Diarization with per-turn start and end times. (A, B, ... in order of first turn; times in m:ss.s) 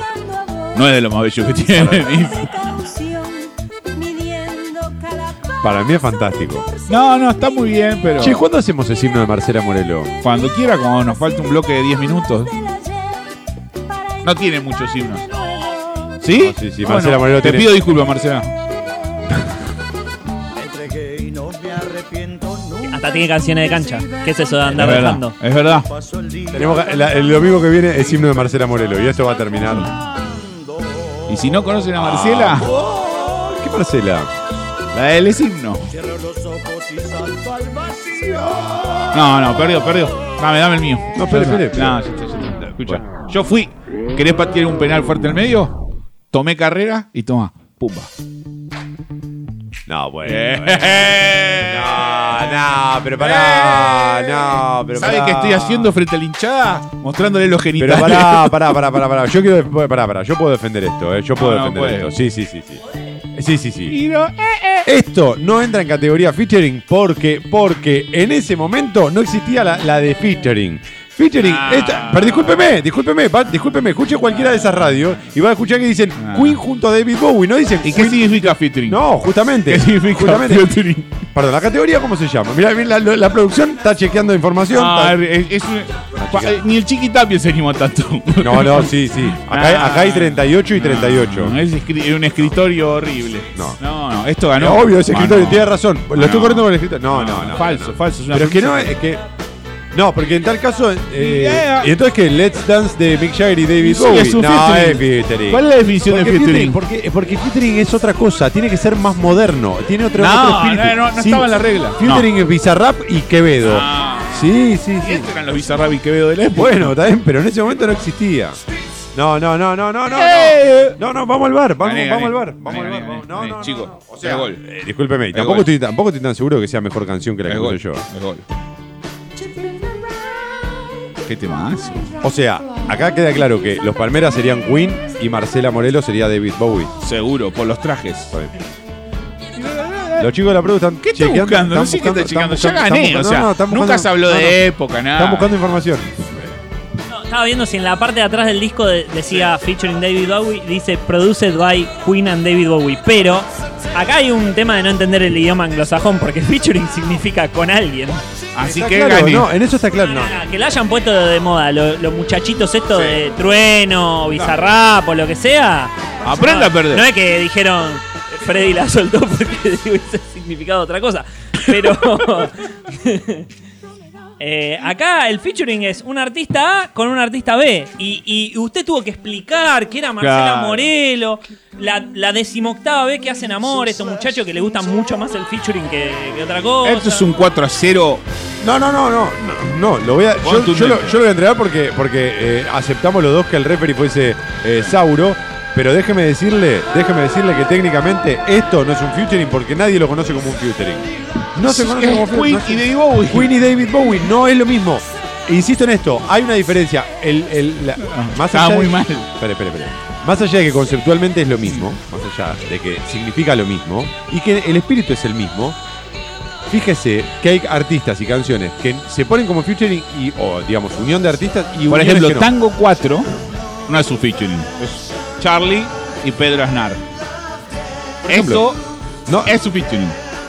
0:00.7-0:02.7 A
0:01.7-0:02.3 B
0:05.6-0:06.7 B
0:06.9-0:08.4 A
0:08.2-0:10.1 B
0:10.2-0:12.5 A
0:14.2-0:15.3 A
0:16.2-0:18.5 A
0:16.3-0:17.7 B
0:20.7-0:21.1 B
0:22.8-0:25.3 C
0:24.7-0:25.9 A
0:26.4-0:29.9 B
0:31.3-0:32.7 A
0:32.0-0:34.3 B
0:34.9-0:35.9 A
0:37.5-0:39.2 B
0:39.1-0:45.8 A
0:41.1-0:42.0 B
0:42.6-0:43.0 B
0:46.3-0:48.1 A
0:49.9-0:55.9 B
0:50.2-0:52.3 A
0:53.2-0:58.7 A
0:57.8-1:02.8 B
1:01.4-1:02.1 A
1:03.3-1:04.0 B
1:03.9-1:04.9 A
1:04.8-1:20.7 B
1:11.4-1:12.6 A
1:16.2-1:16.6 A
1:17.8-1:19.0 A
1:19.6-1:21.2 A
1:21.3-1:25.2 B
1:24.7-1:39.0 A
1:26.2-1:26.6 B
1:28.4-1:31.6 B
1:34.6-1:39.2 B
1:39.9-1:55.3 B
1:41.1-1:41.9 A
1:43.8-1:46.8 A
1:50.2-1:52.3 A
1:53.6-1:57.0 A
1:56.5-1:58.6 B
1:59.1-2:08.0 B
2:00.1-2:01.0 A
2:01.8-2:04.6 A
2:05.3-2:05.7 A
2:07.5-2:08.5 A
2:11.2-2:12.1 A
2:12.2-2:16.9 B
2:17.0-2:18.3 A
2:19.6-2:20.3 A
2:20.2-2:26.5 B
2:21.0-2:25.5 A
2:27.1-2:38.2 C
2:38.6-2:39.5 A
2:38.6-2:40.4 B
2:40.0-2:53.5 C
2:46.2-2:47.0 A
2:54.4-3:07.3 C
3:00.2-3:00.9 A
3:06.8-3:08.2 A
3:08.6-3:35.8 B
3:10.4-3:11.2 A
3:21.6-3:23.6 A
3:28.0-3:29.3 A
3:36.7-3:42.5 B
3:41.9-3:43.3 A
3:43.9-3:47.0 A
3:48.3-3:48.7 B
3:48.3-3:48.8 A
3:49.3-3:49.5 B
3:49.4-3:50.2 A